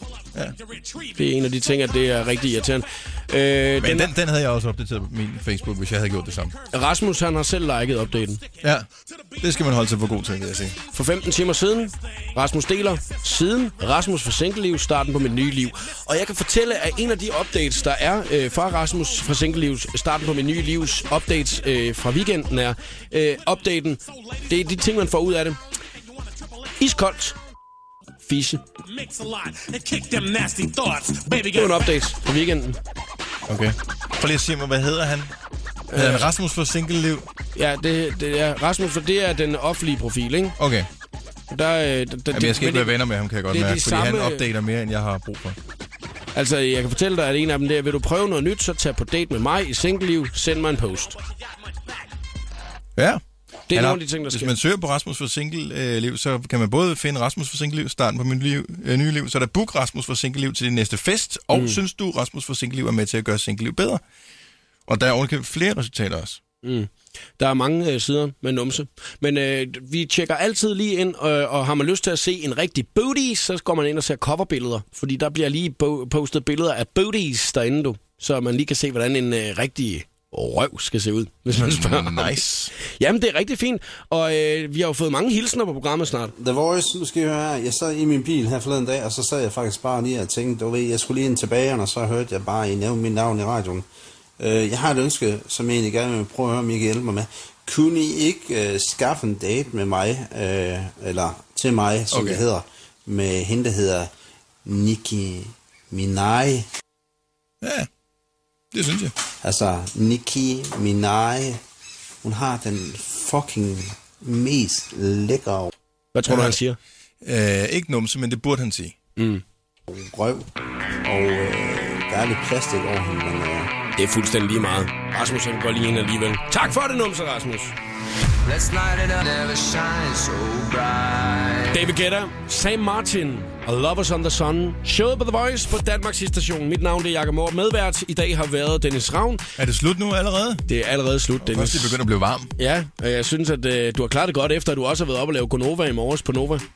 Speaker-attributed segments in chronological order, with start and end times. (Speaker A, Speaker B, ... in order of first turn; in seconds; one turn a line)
Speaker A: 0.2-2.8
Speaker B: 1.2-4.1
Speaker C: 3.8-6.5
Speaker B: 6.7-8.4
Speaker A: 8.0-9.8
Speaker C: 8.6-8.9
Speaker C: 9.4-10.8
Speaker B: 10.9-25.6
Speaker A: 12.2-13.2
Speaker A: 24.1-24.7
Speaker A: 26.1-26.7
Speaker B: 26.8-27.4
Speaker B: 28.2-28.6
Speaker A: 28.8-32.0
Speaker B: 31.5-32.8
Speaker C: 33.5-35.3
Speaker B: 35.9-36.3
Speaker C: 35.9-37.3
Speaker B: 37.6-40.6
Speaker C: 40.6-40.9
Speaker B: 41.5-44.5
Speaker C: 42.3-45.6
Speaker B: 46.4-51.2
Speaker A: 51.1-52.1
Speaker C: 53.0-64.0
Speaker B: 53.7-54.6
Speaker B: 61.5-61.8
Speaker C: 64.9-66.4
Speaker B: 66.6-86.3
Speaker C: 81.5-82.7
Speaker D: 86.4-93.8
Speaker D: 94.4-104.1
Speaker C: 102.1-102.4
Speaker D: 104.7-106.7
Speaker C: 107.6-107.9
Speaker C: 108.7-109.2
Speaker D: 109.4-111.6
Speaker D: 112.2-115.7
Speaker B: 116.1-116.8
Speaker C: 116.3-116.6
Speaker C: 117.2-119.0
Speaker B: 119.2-119.4
Speaker D: 119.9-120.5
Speaker D: 121.0-123.7
Speaker B: 124.0-127.7
Speaker E: 128.4-131.9
Speaker B: 131.7-139.4
Speaker C: 139.6-140.6
Speaker B: 140.7-142.0
Speaker C: 141.4-142.5
Speaker B: 142.6-146.7